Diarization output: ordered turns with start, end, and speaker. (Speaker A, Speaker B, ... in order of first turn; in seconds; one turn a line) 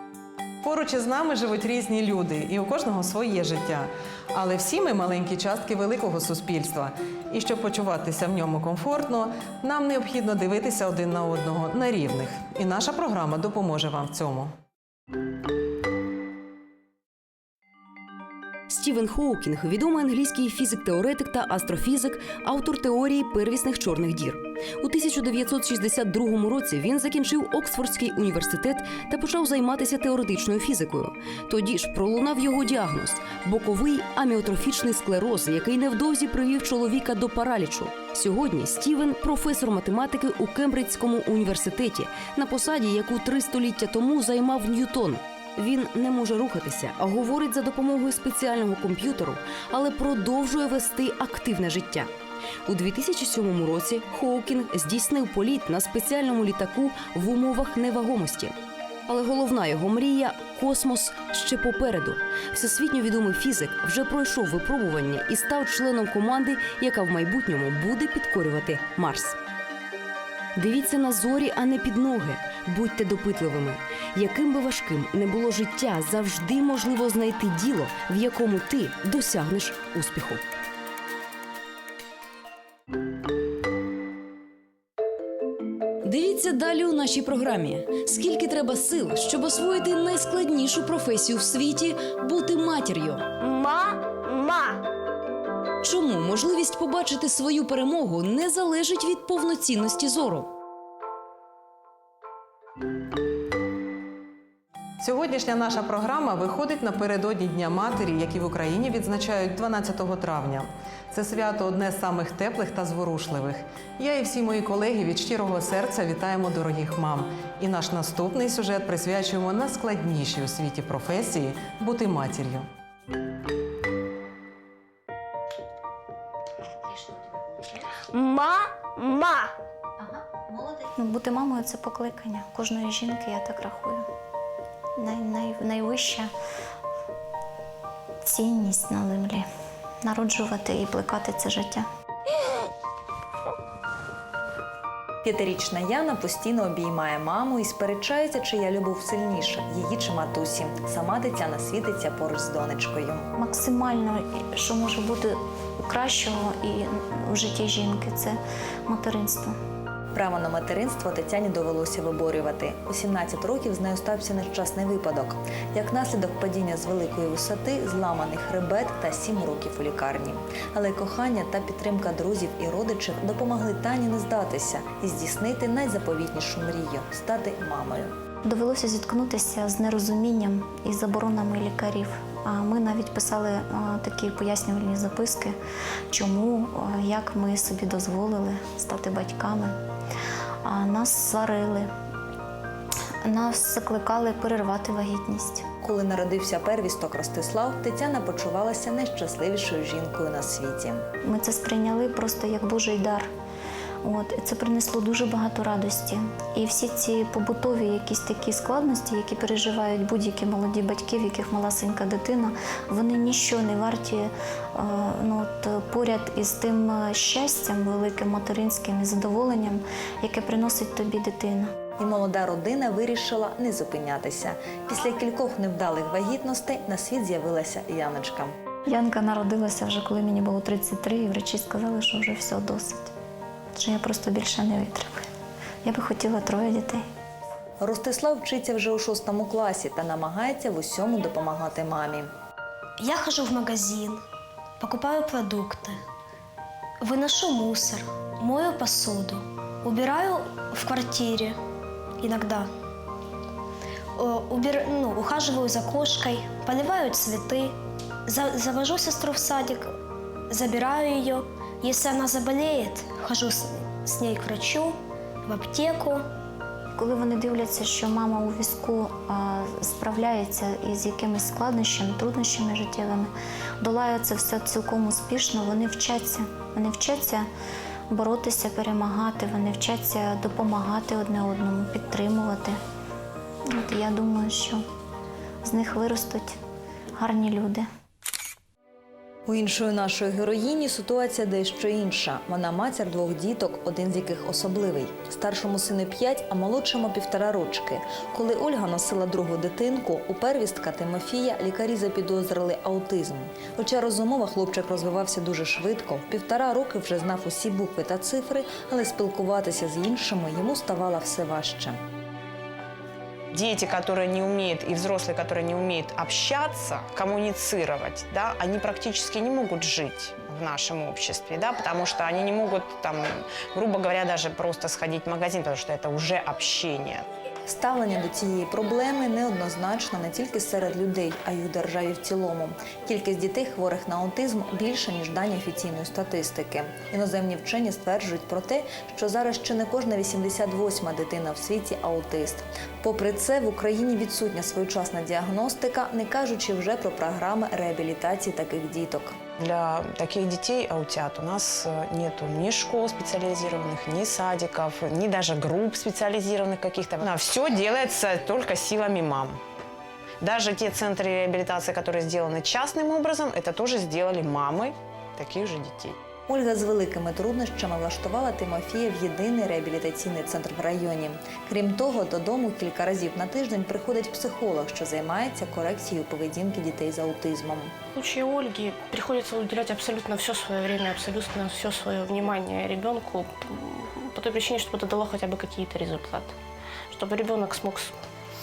Speaker A: 0.6-14.5
Speaker B: 18.7-52.1
Speaker B: 52.6-69.4
Speaker B: 70.5-80.4
Speaker B: 86.0-93.3
Speaker B: 95.8-100.5
Speaker A: 105.0-122.7
Speaker C: 130.8-134.0
Speaker C: 135.0-136.3
Speaker C: 138.2-139.4
Speaker C: 140.0-141.8
Speaker D: 145.2-153.2
Speaker C: 153.4-159.5
Speaker D: 160.1-178.1
Speaker C: 178.4-185.5
Speaker C: 186.1-189.8
Speaker C: 190.6-191.9
Speaker C: 193.2-195.6
Speaker D: 195.8-201.0
Speaker C: 201.2-203.3
Speaker C: 204.0-221.7
Speaker D: 222.0-228.5
Speaker C: 228.9-233.1
Speaker C: 233.7-235.2
Speaker C: 235.8-237.0
Speaker D: 237.8-242.3
Speaker E: 243.0-244.2
Speaker E: 244.8-246.0
Speaker E: 247.0-251.6
Speaker E: 252.2-252.7
Speaker E: 254.2-257.7
Speaker E: 258.3-259.9
Speaker E: 260.5-264.9
Speaker E: 265.5-266.2
Speaker C: 267.0-277.5
Speaker C: 278.1-282.8
Speaker C: 283.7-284.8
Speaker C: 285.6-286.6
Speaker C: 287.1-287.9
Speaker D: 289.5-312.0
Speaker F: 313.5-327.2
Speaker D: 327.7-349.4
Speaker F: 349.6-359.6
Speaker F: 360.4-366.2
Speaker D: 366.5-377.9
Speaker G: 378.1-386.5
Speaker G: 387.1-388.1